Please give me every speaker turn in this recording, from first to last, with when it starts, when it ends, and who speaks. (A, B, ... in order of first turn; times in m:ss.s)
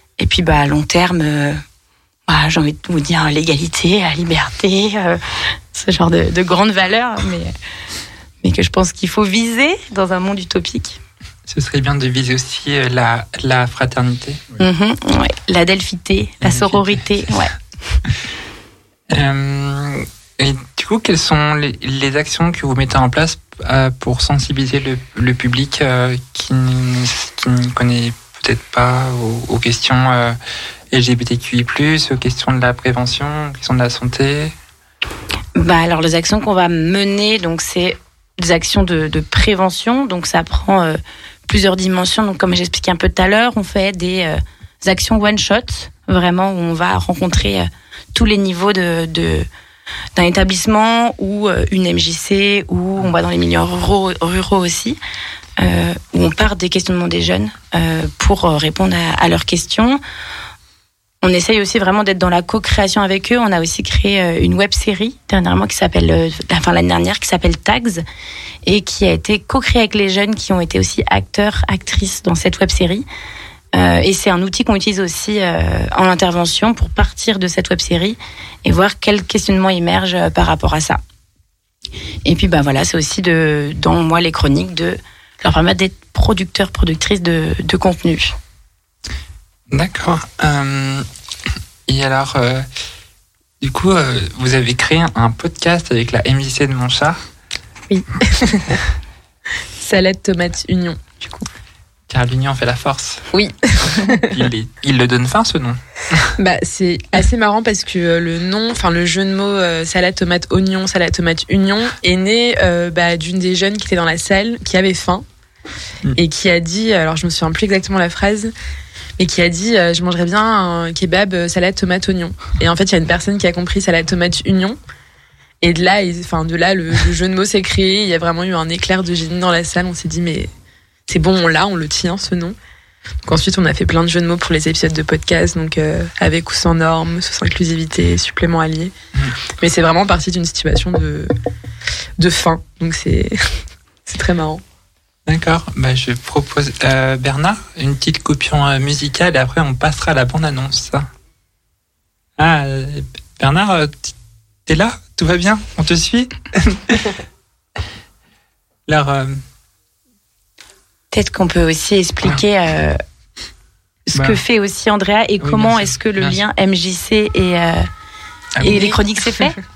0:00.2-0:01.6 A
0:02.3-0:07.5 A
0:08.4-0:11.0 A
0:11.5-0:14.4 B
0:14.6-0:17.5 A
0:16.4-0:17.3 B
0:19.1-0:30.4 B
0:30.9-0:34.5 B
0:35.6-0:49.5 A
0:50.2-0:55.0 A
0:55.6-1:00.0 A
1:01.2-1:08.0 A
1:08.6-1:13.0 A
1:13.7-1:21.0 A
1:22.2-1:28.3 A
1:29.7-1:31.0 B
1:31.9-1:32.6 B
1:33.6-1:37.2 B
1:37.9-1:38.8 C
1:39.8-1:41.4 C
1:42.1-1:43.3 B
1:43.3-1:44.2 C
1:43.8-1:46.3 B
1:46.4-1:55.2 C
1:56.2-1:58.5 C
1:59.2-2:04.8 C
2:05.6-2:10.5 C
2:11.1-2:12.6 C
2:13.2-2:18.9 C
2:19.6-2:21.3 C
2:22.2-2:23.4 C
2:24.0-2:24.6 C
2:25.3-2:31.1 B
2:32.4-2:34.1 B
2:34.7-2:37.0 B
2:38.9-2:39.4 B
2:41.1-2:43.0 A
2:44.1-2:47.8 A
2:44.1-2:44.4 B
2:45.4-2:46.4 B
2:48.6-2:48.9 B
2:48.6-2:49.5 A